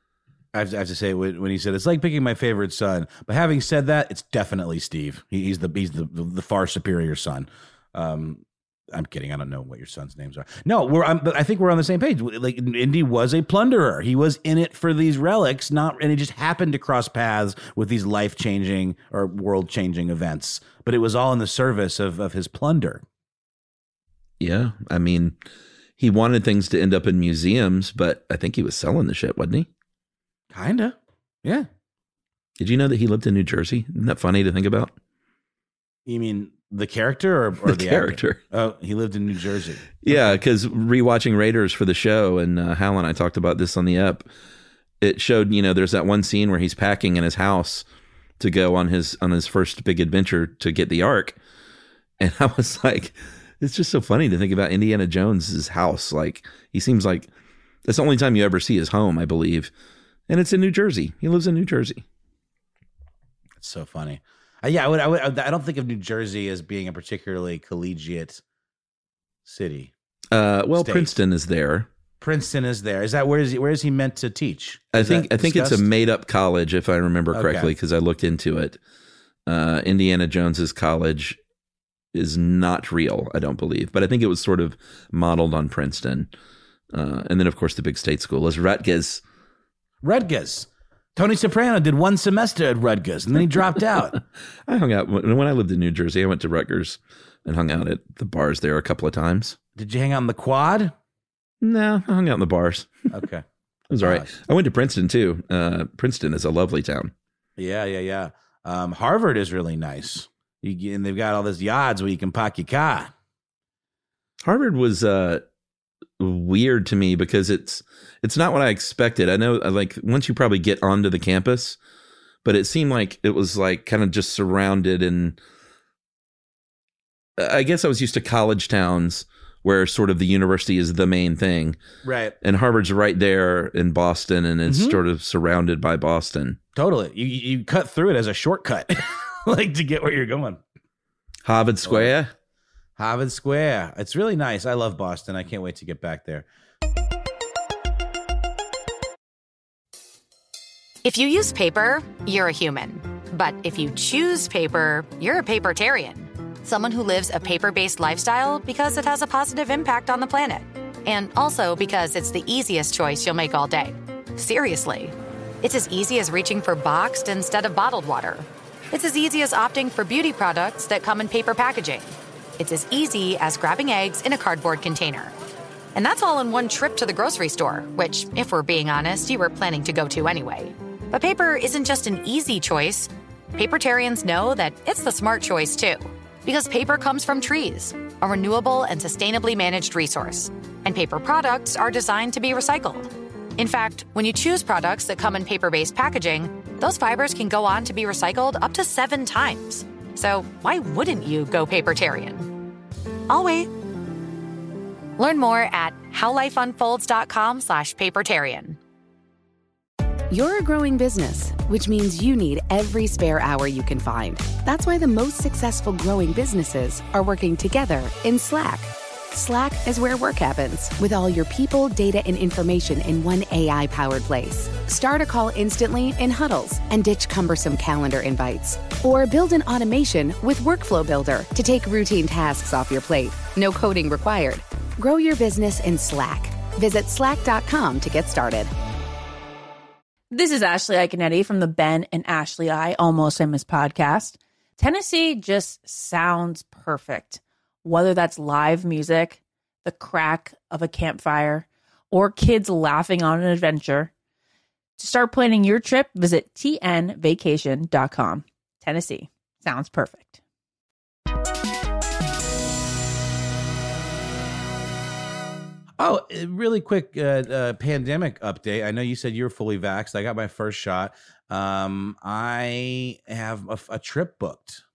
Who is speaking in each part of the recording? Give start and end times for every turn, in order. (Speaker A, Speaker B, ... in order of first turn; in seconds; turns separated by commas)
Speaker A: 0.5-23.0, Speaker B: 24.4-25.4, Speaker B: 26.0-29.7, Speaker A: 30.5-31.7, Speaker B: 32.6-34.9, Speaker A: 36.0-40.4, Speaker B: 37.6-38.4, Speaker B: 40.0-44.3, Speaker B: 45.0-47.9, Speaker B: 48.4-51.4, Speaker B: 52.2-57.3, Speaker B: 57.8-59.7, Speaker B: 60.3-62.0, Speaker A: 63.6-68.4, Speaker A: 69.5-69.9, Speaker B: 70.3-71.9, Speaker A: 70.7-71.1, Speaker A: 72.2-75.8, Speaker B: 74.9-78.8, Speaker A: 77.3-77.7, Speaker B: 79.5-81.4, Speaker B: 82.1-86.3, Speaker B: 86.9-89.2, Speaker A: 90.0-94.2, Speaker B: 94.7-99.6, Speaker A: 99.8-100.9, Speaker B: 101.6-102.9, Speaker A: 103.1-103.4, Speaker B: 103.9-107.1, Speaker A: 104.0-104.3, Speaker A: 107.6-113.1, Speaker B: 114.4-115.4, Speaker B: 116.2-121.8, Speaker B: 122.4-125.4, Speaker B: 127.4-131.8, Speaker A: 132.0-132.3, Speaker B: 132.4-136.6, Speaker A: 134.7-135.0, Speaker A: 136.7-140.6, Speaker B: 141.4-142.3, Speaker A: 141.8-142.1, Speaker A: 143.0-146.4, Speaker C: 151.0-175.3, Speaker C: 175.9-202.5, Speaker C: 203.3-203.7, Speaker C: 205.2-208.8, Speaker D: 210.3-238.7, Speaker E: 240.3-254.1, Speaker E: 255.0-260.4, Speaker A: 266.0-274.8